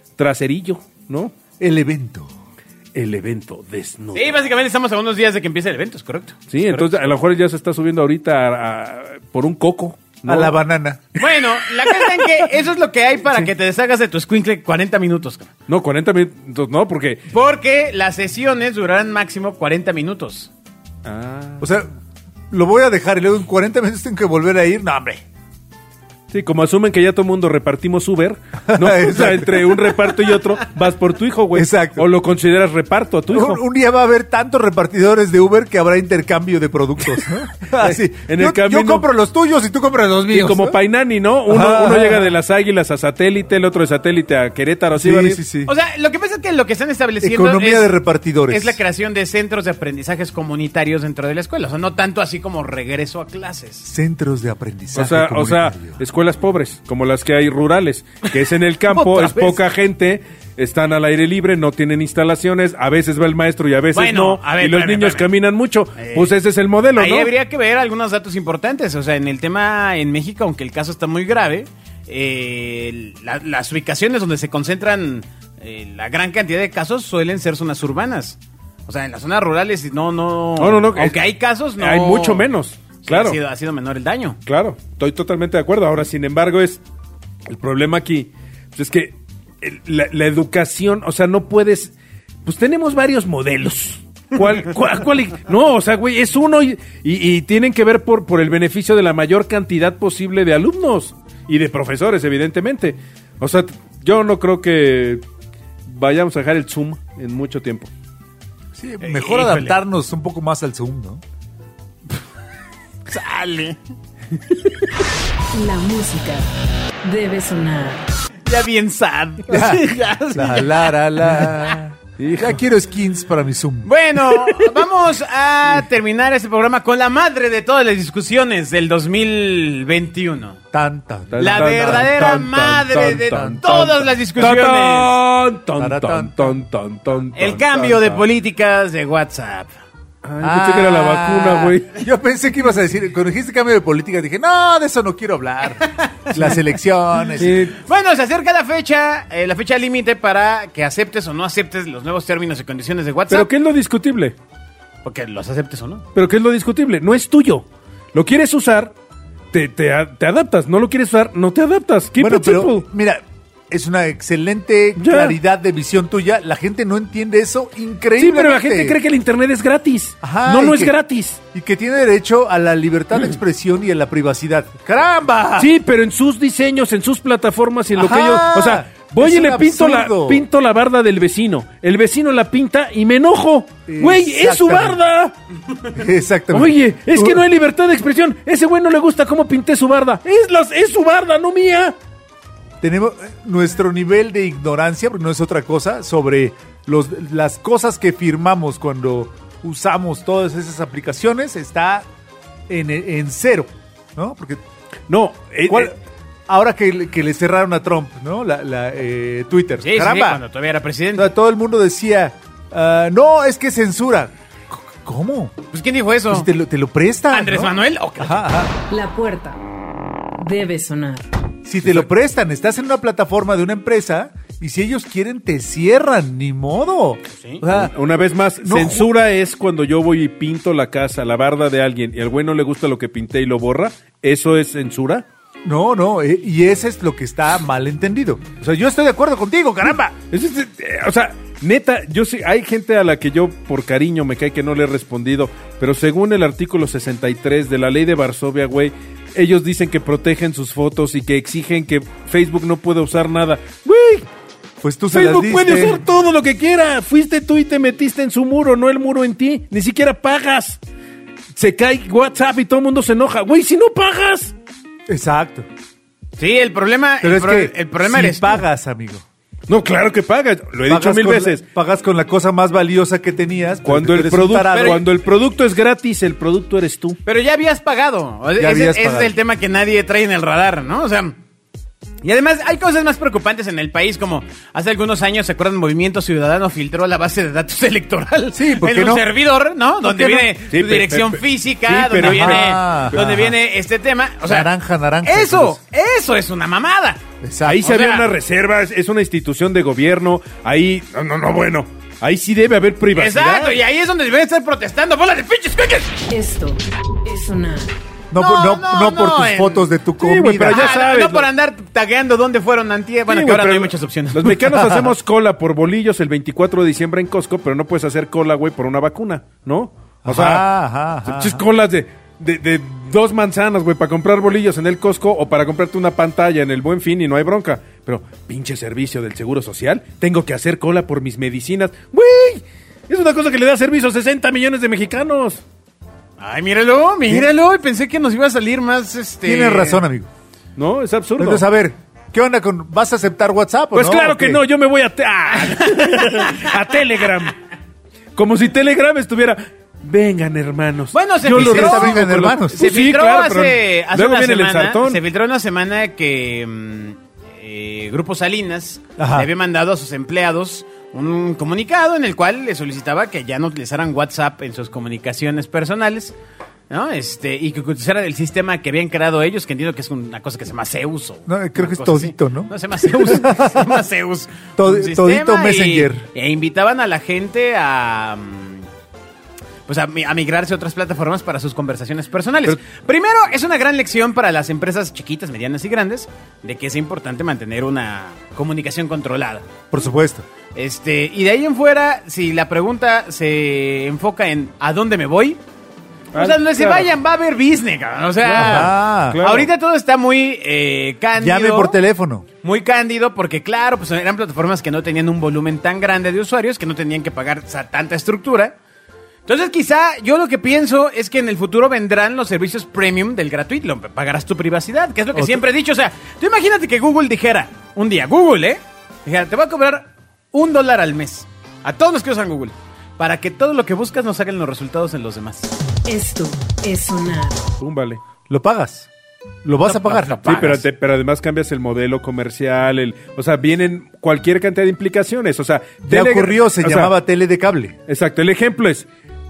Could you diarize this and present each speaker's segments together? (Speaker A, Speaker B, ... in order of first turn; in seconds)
Speaker A: 0.2-1.4, 3.0-4.3, 6.5-10.5, 15.7-17.2, 21.0-21.7, 26.3-33.6, 37.8-39.1, 40.3-45.4, 55.0-67.3, 80.6-81.2, 81.8-83.4, 84.5-86.8, 87.5-91.9, 92.5-105.2, 105.9-107.9, 122.2-122.6, 131.3-138.3, 140.2-141.9, 147.4-147.8, 153.3-154.4, 156.1-158.9, 159.5-162.8, 165.0-165.4, 168.2-171.4, 175.6-185.3, 186.5-192.0, 205.1-205.9, 227.7-235.3, 240.3-254.3, 255.1-260.8, 261.6-264.5, 269.7-271.6, 273.9-277.2, 290.7-293.5, 297.6-303.8, 310.2-311.5, 313.3-320.7, 321.3-335.6, 340.8-341.6, 343.9-347.6, 348.4-355.2, 396.3-397.1, 398.5-399.7, 427.8-428.2, 430.4-437.1, 438.1-439.1
Speaker B: 1.6-2.3, 10.2-11.2, 21.6-21.9, 22.5-25.2, 28.6-30.2, 31.5-32.1, 33.3-40.8, 41.5-42.4, 45.0-45.7, 47.2-48.8, 53.9-56.0, 108.8-111.2, 119.5-123.9, 130.7-132.1, 133.3-134.1, 135.8-136.6, 140.4-147.7, 162.2-169.0, 170.2-170.9, 171.5-175.7, 177.9-180.5, 183.9-185.0, 185.9-187.4, 192.8-202.1, 202.7-204.6, 205.7-206.0, 206.5-210.4, 211.2-215.6, 216.3-218.7, 221.7-227.9, 228.6-229.1, 235.7-240.2, 254.8-256.0, 265.1-265.7, 267.2-269.2, 270.9-275.1, 278.6-279.4, 288.5-289.3, 290.1-290.5, 292.2-293.2, 294.5-295.8, 297.4-297.9, 308.3-310.9, 314.7-315.1, 320.2-321.6, 339.4-340.3, 341.4-344.6, 351.4-352.8, 359.2-359.5, 371.5-373.9, 374.8-376.3, 389.9-390.4, 398.5-399.4, 401.4-402.5, 428.5-429.1, 429.6-430.5, 436.0-437.9
Speaker C: 4.1-7.1, 11.2-15.5, 17.3-20.5, 45.7-53.9, 58.9-59.6, 63.9-65.3, 66.0-66.4, 67.0-82.5, 83.0-84.4, 109.0-109.8, 113.1-113.8, 118.5-121.8, 123.8-130.6, 131.4-135.2, 137.3-139.8, 145.9-146.6, 147.3-153.5, 155.0-156.1, 209.8-211.3, 215.7-216.5, 217.3-218.5, 227.4-227.6, 266.4-268.6, 274.7-275.1, 277.2-281.4, 282.2-294.7, 295.2-297.2, 297.7-298.3, 303.1-306.2, 308.4-309.9, 310.7-314.7, 336.4-340.0, 345.6-346.7, 351.1-366.4, 366.9-378.9, 379.9-389.8, 390.8-395.6, 396.3-402.0, 402.6-408.8, 409.5-425.7, 429.8-430.9
Speaker D: 115.5-116.5, 117.0-118.1, 218.9-219.6, 220.4-221.3, 306.3-307.9, 426.1-427.6